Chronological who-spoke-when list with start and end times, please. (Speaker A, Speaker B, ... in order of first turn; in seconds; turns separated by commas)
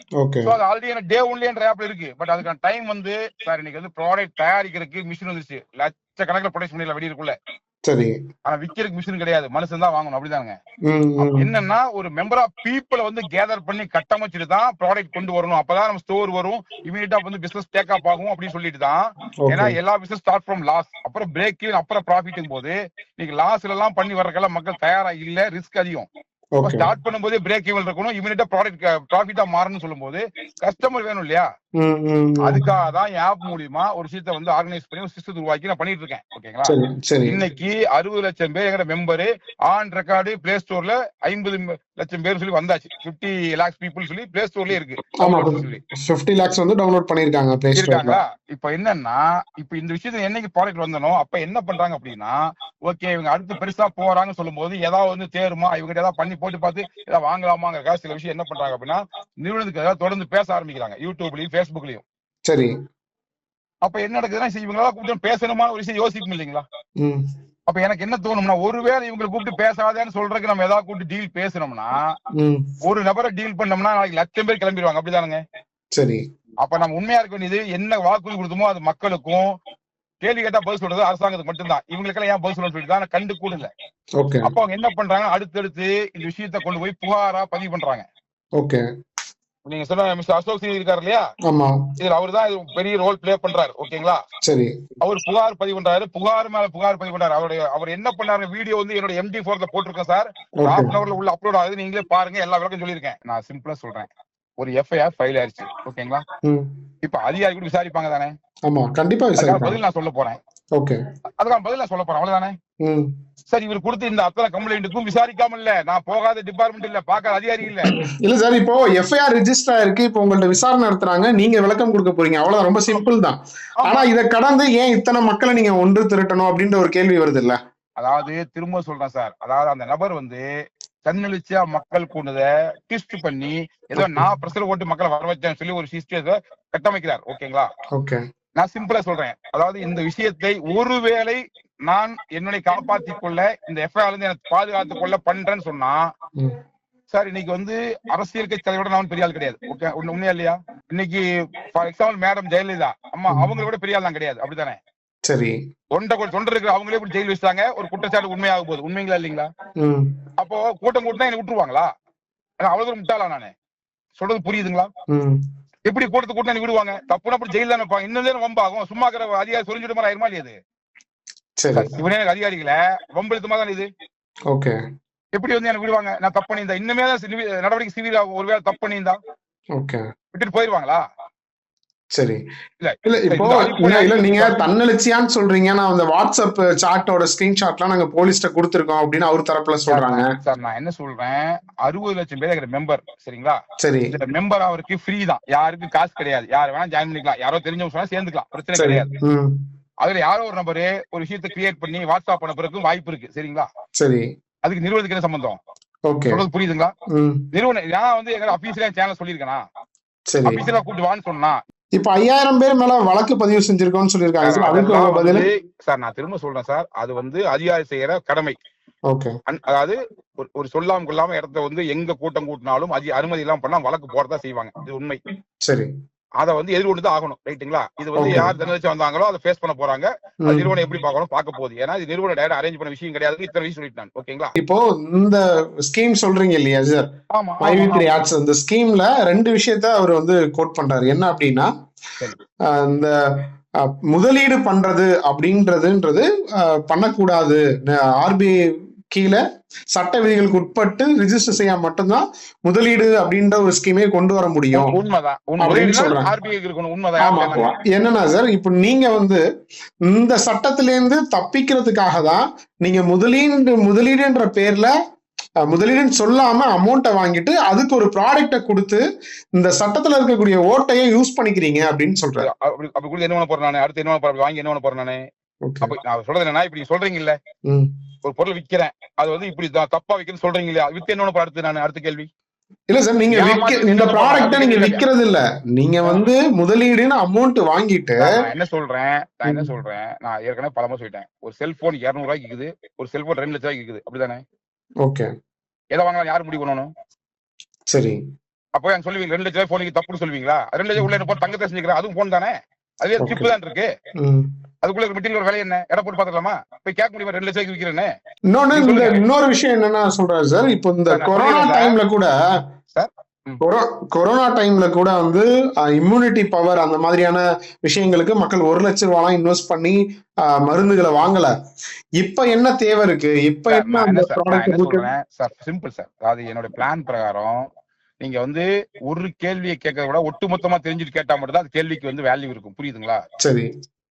Speaker A: 0.2-0.6, Speaker B: 0.4-7.3, Speaker A: 7.9-8.2, Speaker B: 8.4-10.5, Speaker A: 10.9-11.5, Speaker B: 11.2-26.1, Speaker A: 19.4-19.8, Speaker A: 26.6-26.9, Speaker B: 26.6-31.5, Speaker A: 31.8-32.6, Speaker B: 32.4-45.8, Speaker A: 36.7-37.4, Speaker A: 45.2-48.2, Speaker B: 47.8-62.0, Speaker A: 62.5-62.7, Speaker B: 63.8-66.7, Speaker B: 67.7-72.1, Speaker A: 72.4-72.7, Speaker B: 72.8-75.4, Speaker A: 76.0-76.2, Speaker B: 76.6-79.5, Speaker B: 80.2-83.7, Speaker A: 84.2-84.5, Speaker B: 84.4-88.0, Speaker A: 88.6-88.8, Speaker B: 89.7-91.2, Speaker A: 91.5-91.8, Speaker B: 92.0-94.2, Speaker A: 94.4-94.9, Speaker B: 95.0-104.1, Speaker A: 100.6-100.9, Speaker B: 104.6-106.2, Speaker A: 106.4-106.7, Speaker B: 107.0-108.3, Speaker A: 108.7-109.8, Speaker B: 109.4-110.4, Speaker B: 111.4-112.5, Speaker A: 112.8-113.1, Speaker B: 113.5-117.9, Speaker A: 117.8-127.6, Speaker B: 123.8-124.1, Speaker B: 128.0-130.4, Speaker B: 131.1-137.7, Speaker A: 134.0-134.3, Speaker A: 137.9-138.2, Speaker B: 138.6-146.0, Speaker B: 147.1-154.8, Speaker A: 155.3-155.6, Speaker B: 155.9-159.5, Speaker A: 159.8-160.2, Speaker B: 160.4-161.9, Speaker B: 162.6-163.5, Speaker B: 164.2-164.9, Speaker A: 165.1-165.4, Speaker B: 165.9-170.6, Speaker A: 171.6-171.9, Speaker B: 171.7-173.9, Speaker A: 174.5-174.8, Speaker B: 175.4-179.2, Speaker A: 179.8-180.0, Speaker B: 180.3-181.0, Speaker A: 182.2-182.4, Speaker B: 182.8-184.6, Speaker A: 183.1-190.3, Speaker B: 189.9-193.6, Speaker A: 193.8-194.1, Speaker B: 194.1-199.1, Speaker A: 198.8-199.6, Speaker B: 200.0-203.7, Speaker A: 204.0-204.3, Speaker B: 204.6-205.6, Speaker A: 206.1-206.4, Speaker B: 206.3-206.9, Speaker A: 207.1-207.4, Speaker B: 207.5-209.6, Speaker A: 210.3-210.6, Speaker B: 210.4-211.6, Speaker A: 212.0-215.5, Speaker B: 214.4-218.6, Speaker B: 219.5-225.2, Speaker A: 225.7-225.9, Speaker B: 226.4-234.5, Speaker A: 228.2-228.5, Speaker A: 230.4-230.8, Speaker A: 234.6-237.1, Speaker B: 237.3-238.2, Speaker A: 237.6-241.7, Speaker A: 242.7-249.4, Speaker A: 249.9-255.0, Speaker B: 254.7-257.7, Speaker A: 255.6-256.3, Speaker A: 257.2-259.4, Speaker A: 260.1-264.9, Speaker A: 265.6-269.0, Speaker A: 269.6-272.5, Speaker B: 272.4-275.2, Speaker A: 275.7-275.9, Speaker B: 275.8-277.4, Speaker B: 278.2-282.3, Speaker A: 282.9-288.4, Speaker B: 283.3-285.1, Speaker B: 288.2-294.4, Speaker A: 289.5-289.7, Speaker A: 295.0-295.3, Speaker B: 295.9-296.9, Speaker A: 297.9-298.2, Speaker B: 298.8-303.9, Speaker A: 303.2-303.5, Speaker A: 304.2-304.5, Speaker B: 304.8-308.1, Speaker A: 308.5-312.4, Speaker B: 308.7-309.2, Speaker B: 311.1-312.0, Speaker B: 312.9-313.6, Speaker A: 313.6-321.5, Speaker A: 322.2-325.1, Speaker B: 323.7-327.7, Speaker B: 328.2-333.2, Speaker A: 333.4-333.7